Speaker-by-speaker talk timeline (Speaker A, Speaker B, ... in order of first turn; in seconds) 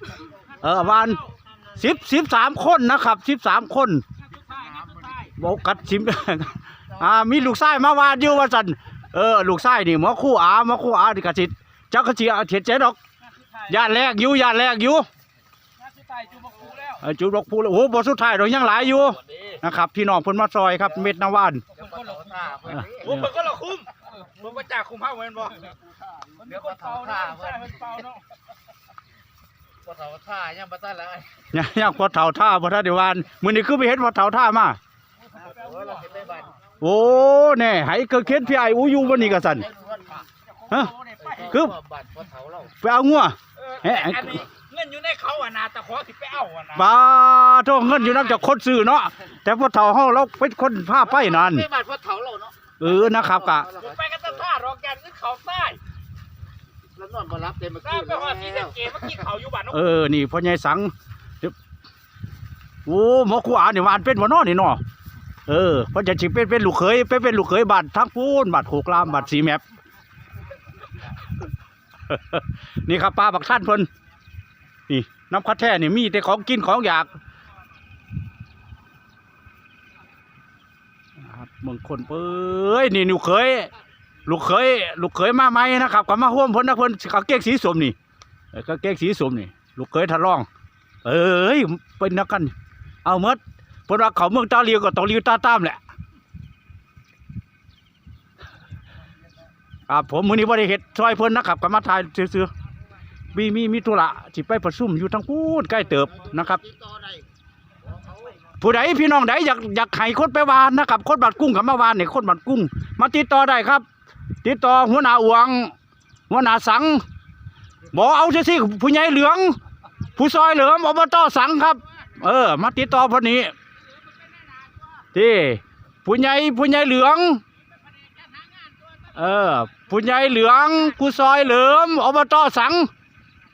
Speaker A: 0.6-4.0, 5.3-13.0, 13.7-15.1, 16.9-21.6, 23.0-23.3, 31.5-34.8, 36.8-39.7, 40.7-41.8, 42.7-44.5, 46.7-51.7, 52.8-53.7, 59.7-61.5, 62.8-64.8, 65.5-69.6, 72.1-73.9, 74.9-77.2, 81.2-83.7, 84.2-88.0, 88.5-90.5, 91.0-92.5, 93.0-95.8, 99.9-102.5, 103.3-106.7, 108.6-113.8, 114.4-115.7, 116.3-117.0, 117.9-119.6, 120.1-123.5, 125.1-127.4, 129.1-132.9
Speaker B: 4.5-5.2, 16.0-16.9, 21.8-22.4, 22.9-25.8, 26.4-28.2, 35.6-35.9, 43.6-46.8, 53.7-55.8, 57.8-59.7
Speaker C: 21.9-23.1, 26.4-27.7, 29.8-31.4, 35.6-36.5, 39.7-40.2, 41.3-42.7, 51.5-52.5, 57.0-58.3, 106.7-107.2